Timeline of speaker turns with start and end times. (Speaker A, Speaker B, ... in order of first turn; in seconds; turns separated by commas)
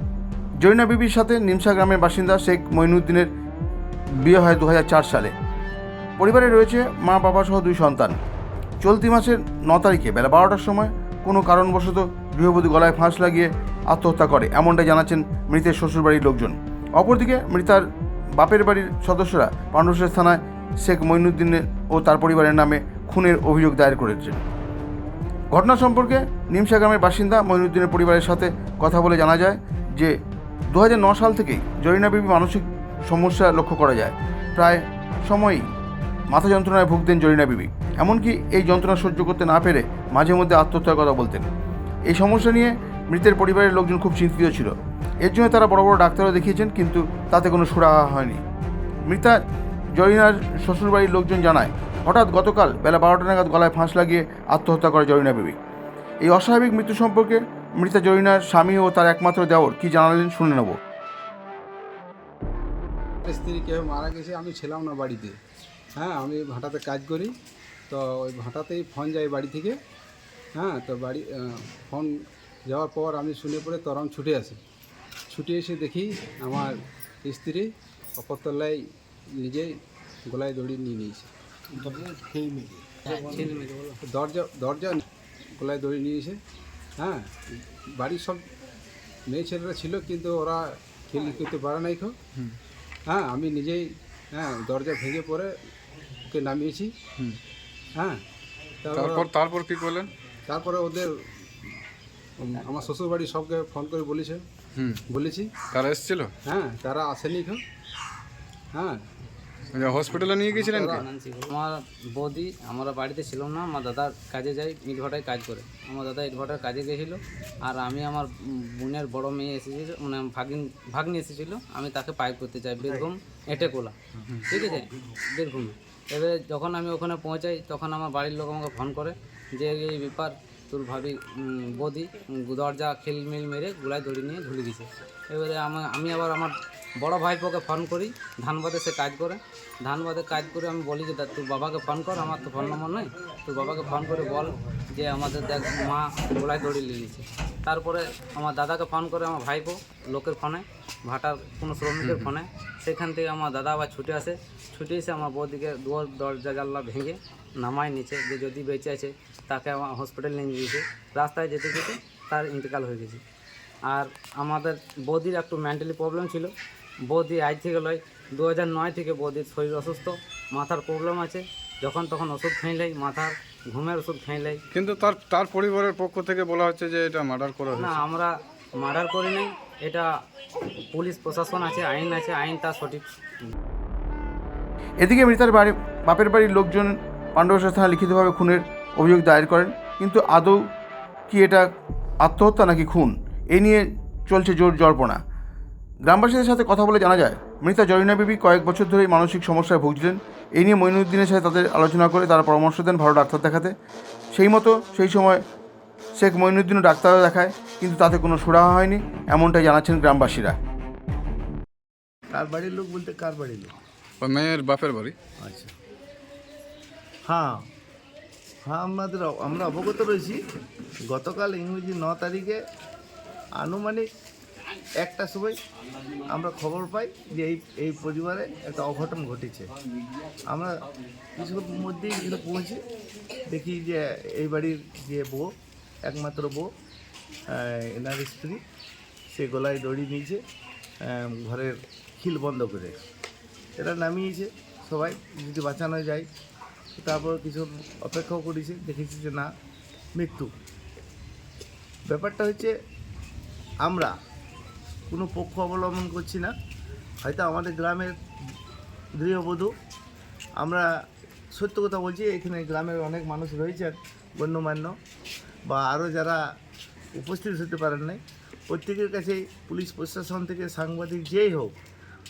Speaker A: 0.6-3.3, Speaker A: 4.2-5.3, Speaker A: 6.2-8.2, Speaker A: 8.8-17.8, Speaker A: 18.4-24.4, Speaker A: 25.5-30.1, Speaker A: 30.7-35.6, Speaker A: 36.3-41.5, Speaker A: 42.1-48.4, Speaker A: 49.1-49.4, Speaker A: 49.9-55.6, Speaker A: 56.2-60.8, Speaker B: 63.2-65.4, Speaker B: 66.0-67.3, Speaker B: 67.9-69.8, Speaker B: 70.5-72.1, Speaker B: 72.7-74.6, Speaker B: 75.3-76.7, Speaker B: 77.2-78.8, Speaker B: 79.3-79.7, Speaker B: 80.2-81.3, Speaker B: 81.8-83.3, Speaker C: 83.1-84.0, Speaker B: 84.0-85.0, Speaker B: 85.6-86.4, Speaker B: 87.0-88.4, Speaker B: 89.3-92.2, Speaker B: 93.1-95.5, Speaker B: 96.2-96.9, Speaker B: 98.0-98.2, Speaker B: 98.8-99.3, Speaker D: 98.9-100.1, Speaker B: 100.5-101.1, Speaker B: 102.4-104.4, Speaker D: 104.8-105.0, Speaker B: 105.1-105.6, Speaker D: 105.7-106.3, Speaker B: 106.5-107.6, Speaker B: 108.7-109.0, Speaker D: 109.7-111.0, Speaker C: 110.5-123.9, Speaker B: 110.8-111.0, Speaker C: 124.5-163.2, Speaker D: 152.0-152.3, Speaker C: 163.9-166.5, Speaker C: 167.1-174.6, Speaker D: 174.7-178.0, Speaker C: 177.8-180.1, Speaker C: 180.9-183.1, Speaker A: 185.0-190.6, Speaker A: 191.3-191.6, Speaker A: 192.2-195.2, Speaker A: 196.0-203.7, Speaker A: 204.3-205.4, Speaker A: 206.2-210.6, Speaker E: 212.3-213.7, Speaker D: 214.2-215.1, Speaker E: 215.4-215.7, Speaker E: 217.3-217.6, Speaker E: 218.6-220.4, Speaker E: 221.1-222.6, Speaker E: 223.6-224.0, Speaker E: 225.0-225.6, Speaker E: 226.3-229.7, Speaker E: 230.5-230.7, Speaker E: 231.3-232.8, Speaker E: 233.5-235.5, Speaker E: 236.0-236.7, Speaker E: 237.5-238.6, Speaker E: 239.3-240.4, Speaker E: 241.0-243.0, Speaker E: 243.8-246.3, Speaker E: 246.9-249.5, Speaker E: 250.1-250.5, Speaker E: 252.1-252.7, Speaker E: 253.8-254.1, Speaker E: 255.1-256.5, Speaker E: 257.2-258.1, Speaker E: 259.1-259.7, Speaker E: 261.5-264.9, Speaker E: 265.7-266.4, Speaker E: 267.1-271.8